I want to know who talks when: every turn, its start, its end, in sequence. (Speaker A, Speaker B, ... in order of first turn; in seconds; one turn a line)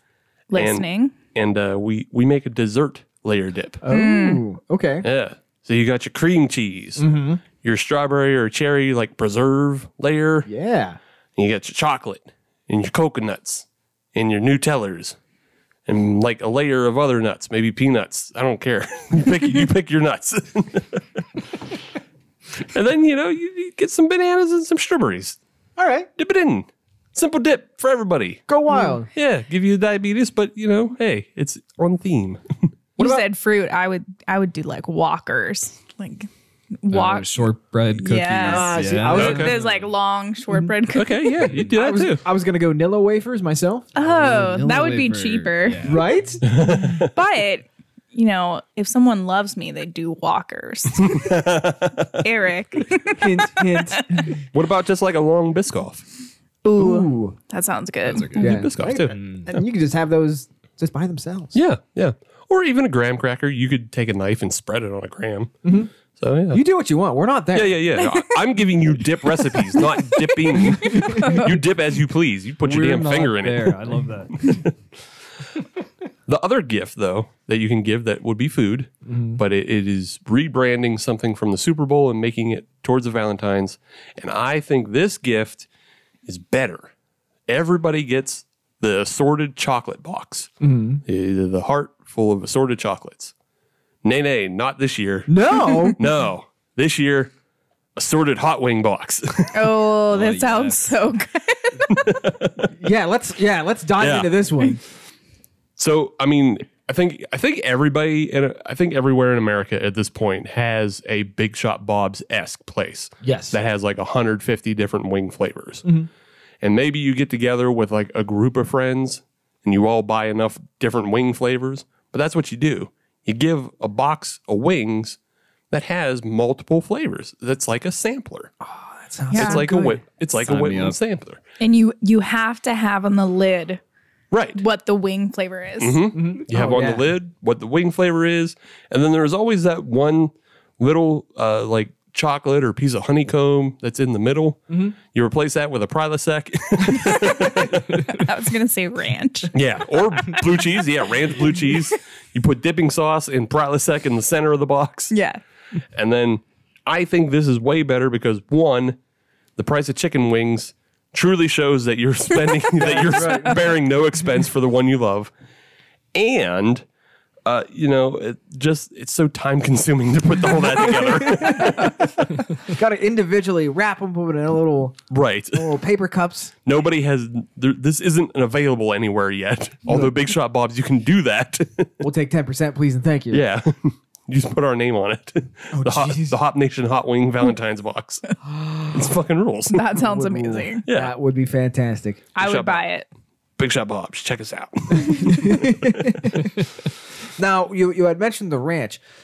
Speaker A: 0.5-1.1
Speaker B: 0.5-3.8
Speaker C: 3.8-5.0
Speaker A: 3.9-4.4
Speaker B: 5.0-7.0
Speaker C: 7.0-7.4
Speaker B: 7.6-10.5
Speaker C: 10.4-11.0
Speaker B: 11.4-15.2
Speaker B: 15.9-21.0
Speaker B: 22.6-25.4
Speaker C: 25.8-26.1
Speaker B: 26.2-28.4
Speaker C: 28.5-29.1
Speaker A: 28.7-29.0
Speaker B: 29.1-32.4
Speaker C: 33.0-33.2
Speaker A: 33.0-36.3
Speaker A: 36.8-37.5
Speaker D: 36.9-39.9
Speaker A: 38.0-41.4
Speaker C: 38.4-39.6
Speaker B: 39.1-39.5
Speaker B: 40.9-42.2
Speaker C: 41.7-44.4
Speaker A: 43.9-46.0
Speaker D: 44.0-46.0
Speaker C: 45.8-46.5
Speaker B: 46.5-47.1
Speaker A: 47.0-51.4
Speaker B: 51.0-52.2
Speaker A: 52.2-54.3
Speaker C: 53.2-54.3
Speaker B: 54.5-56.0
Speaker A: 56.6-58.6
Speaker C: 56.8-57.4
Speaker D: 58.0-59.5
Speaker C: 58.4-61.6
Speaker B: 58.4-59.2
Speaker B: 61.5-65.5
Speaker C: 65.6-65.9
Speaker B: 66.2-66.6
Speaker C: 66.5-67.8
Speaker B: 67.5-73.8
Speaker C: 70.8-71.5
Speaker A: 71.2-71.4
Speaker D: 72.6-74.3
Speaker B: 74.3-74.7
Speaker B: 76.3-85.7
Speaker C: 79.0-79.4
Speaker B: 86.2-86.9
Speaker B: 87.5-90.5
Speaker C: 90.6-91.0
Speaker B: 91.0-93.3
Speaker B: 94.0-97.3
Speaker C: 95.3-96.0
Speaker B: 98.0-99.8
Speaker A: 99.5-102.0
Speaker D: 100.1-101.0
Speaker B: 101.9-102.7
Speaker C: 102.7-104.8
Speaker B: 104.0-104.7
Speaker B: 105.8-115.8
Speaker C: 113.2-113.6
Speaker B: 116.6-125.2
Speaker B: 125.7-128.5
Speaker C: 128.6-130.0
Speaker A: 129.3-129.6
Speaker B: 129.3-131.4
Speaker D: 130.4-131.0
Speaker A: 131.6-133.8
Speaker B: 134.3-134.6
Speaker A: 134.6-136.0
Speaker B: 135.8-148.0
Speaker C: 136.1-137.1
Speaker C: 144.7-144.9
Speaker A: 147.3-149.5
Speaker B: 149.5-155.1
Speaker A: 155.1-155.4
Speaker B: 155.9-159.0
Speaker B: 159.6-165.3
Speaker C: 162.8-163.7
Speaker A: 163.2-163.5
Speaker B: 166.1-166.8
Speaker B: 167.4-172.4
Speaker C: 170.7-175.0
Speaker B: 175.1-175.7
Speaker C: 175.5-176.5
Speaker B: 176.6-182.0
Speaker C: 179.9-180.2
Speaker C: 182.0-183.4
Speaker B: 183.3-188.3
Speaker C: 185.7-186.4
Speaker C: 188.5-189.0
Speaker B: 188.9-189.9
Speaker A: 189.7-190.8
Speaker C: 189.9-192.2
Speaker B: 190.9-191.1
Speaker A: 192.3-193.1
Speaker B: 192.4-192.8
Speaker B: 193.6-196.4
Speaker C: 195.1-196.5
Speaker C: 197.4-199.0